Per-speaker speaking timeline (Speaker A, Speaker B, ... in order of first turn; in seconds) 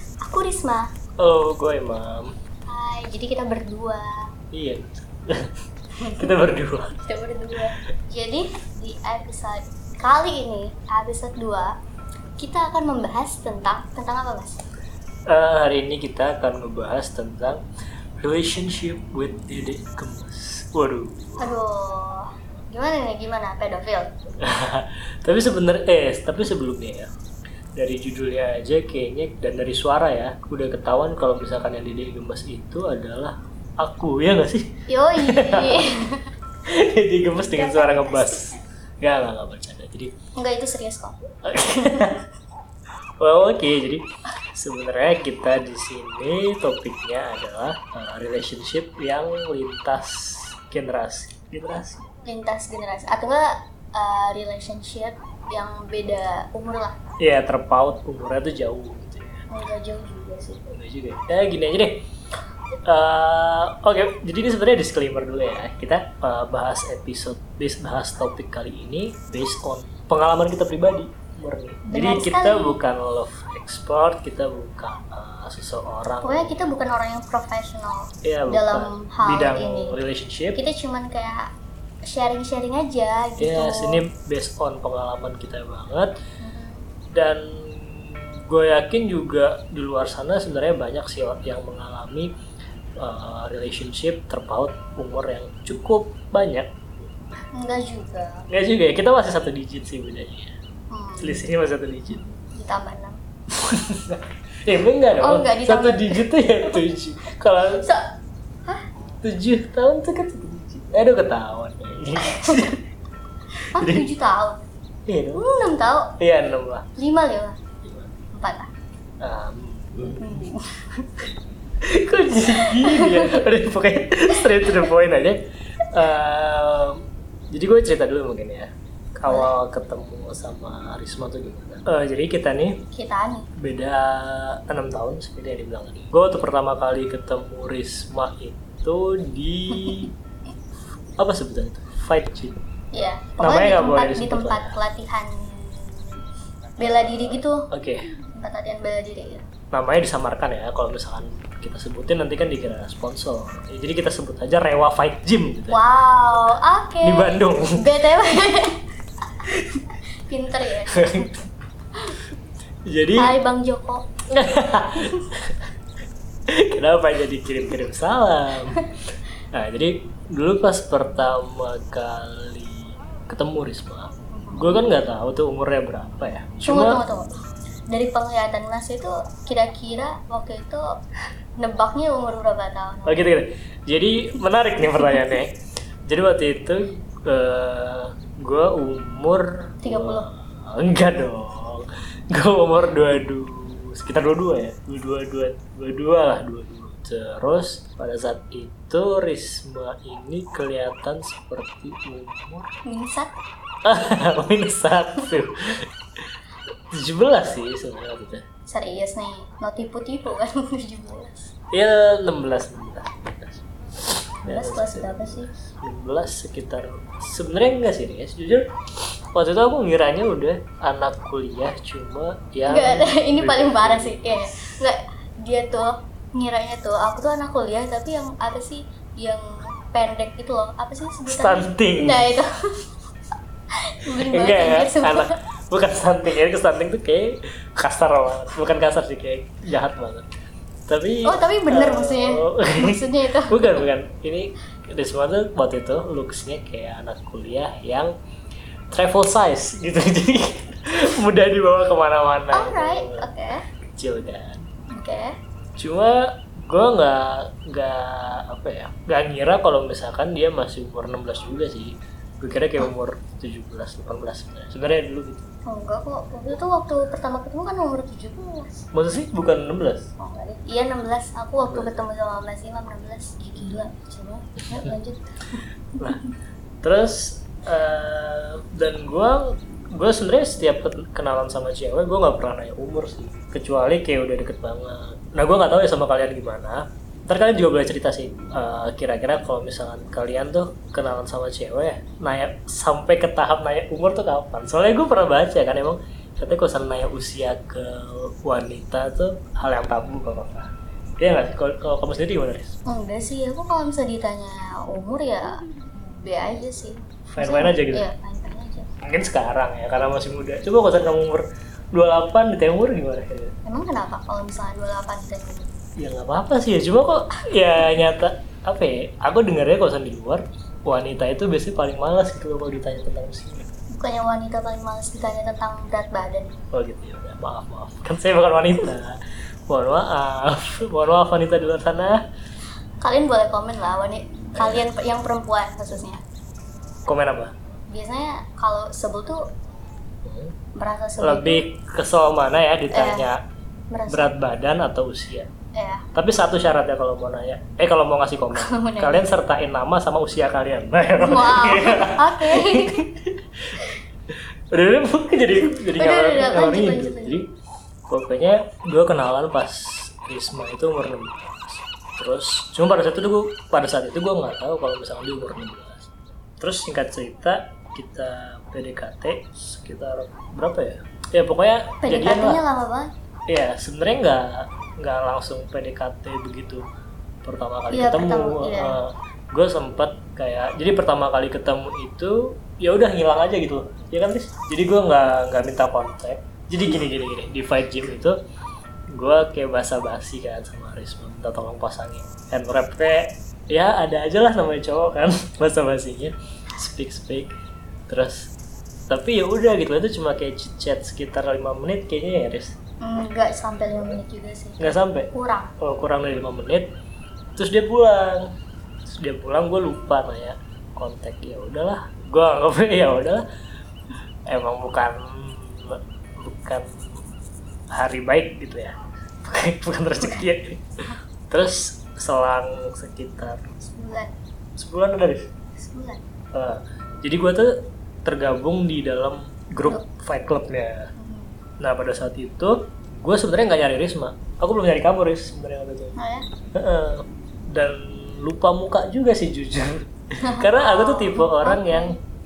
Speaker A: 0.2-0.9, 2.7-4.1, 6.0-6.2, 7.0-11.7, 12.4-14.6, 21.4-24.1, 34.9-36.3, 37.4-38.6, 40.4-42.1, 52.2-57.0, 59.5-60.6, 71.9-72.8, 76.2-80.0, 80.5-81.5, 82.1-84.0, 86.4-86.9, 97.5-98.5, 100.9-101.5, 102.2-103.2, 105.2-106.8, 107.7-108.0, 112.3-112.7, 113.6-114.6, 115.3-116.1, 117.0-117.6, 118.3-118.7, 120.1-121.0, 122.5-123.3, 129.3-129.5, 132.9-133.5, 139.7-140.1, 142.9-146.2, 146.8-147.7, 148.3-149.4, 155.7-158.8, 159.4-161.3, 163.2-164.1, 174.3-174.9, 176.7-177.3, 177.9-180.9, 181.6-183.3, 189.8-190.3, 202.8-203.3, 208.7-211.5, 214.5-215.5, 222.6-232.5, 233.8-235.3, 241.2-243.8, 252.5-253.6, 254.9-255.3, 265.6-268.9, 270.2-276.2, 302.9-308.9, 313.6-315.7, 323.9-326.6, 333.0-336.2, 337.9-339.4, 340.8-341.6, 342.9-343.2, 343.9-344.3, 345.7-346.1, 348.5-349.3, 351.2-353.0, 355.9-357.4, 372.0-373.1, 377.9-378.9, 403.0-405.7, 423.8-424.3, 425.8-426.2, 431.2-431.6, 436.2-436.4, 440.4-442.2
Speaker B: 1.2-2.3, 4.5-5.5, 6.1-6.9, 15.3-17.6, 18.2-21.5, 24.4-27.1, 27.8-35.9, 36.6-40.1, 41.4-42.2, 43.2-52.1, 57.2-59.4, 60.6-62.0, 62.8-76.6, 78.2-80.6, 83.4-86.1, 87.1-92.3, 93.0-97.1, 98.5-100.5, 101.2-102.2, 103.5-107.9, 109.2-112.8, 113.6-114.0, 115.0-115.4, 116.2-116.9, 117.8-118.1, 119.2-120.5, 121.8-132.8, 133.6-140.1, 141.2-142.6, 143.4-144.8, 147.3-148.0, 149.7-155.8, 157.0-157.9, 160.9-161.5, 162.8-163.3, 164.3-165.7, 166.5-168.8, 169.5-177.0, 183.1-202.7, 203.8-206.2, 206.9-208.4, 211.7-224.5, 231.3-232.3, 234.1-240.3, 240.9-248.1, 248.9-254.7, 255.8-265.5, 268.9-270.1, 271.6-272.0, 276.8-302.7, 307.3-308.1, 309.0-313.5, 316.0-323.7, 326.7-332.2, 334.6-334.8, 337.1-337.5, 340.2-340.5, 341.2-343.4, 344.1-345.5, 346.1-357.5, 358.1-372.6, 373.5-376.8, 377.4-388.4, 389.1-397.5, 398.1-398.5, 399.1-402.7, 404.8-406.9, 407.6-408.5, 409.1-413.4, 414.4-417.0, 417.9-420.8, 421.5-423.6, 424.8-425.5, 426.5-431.1, 431.8-436.2, 436.7-442.2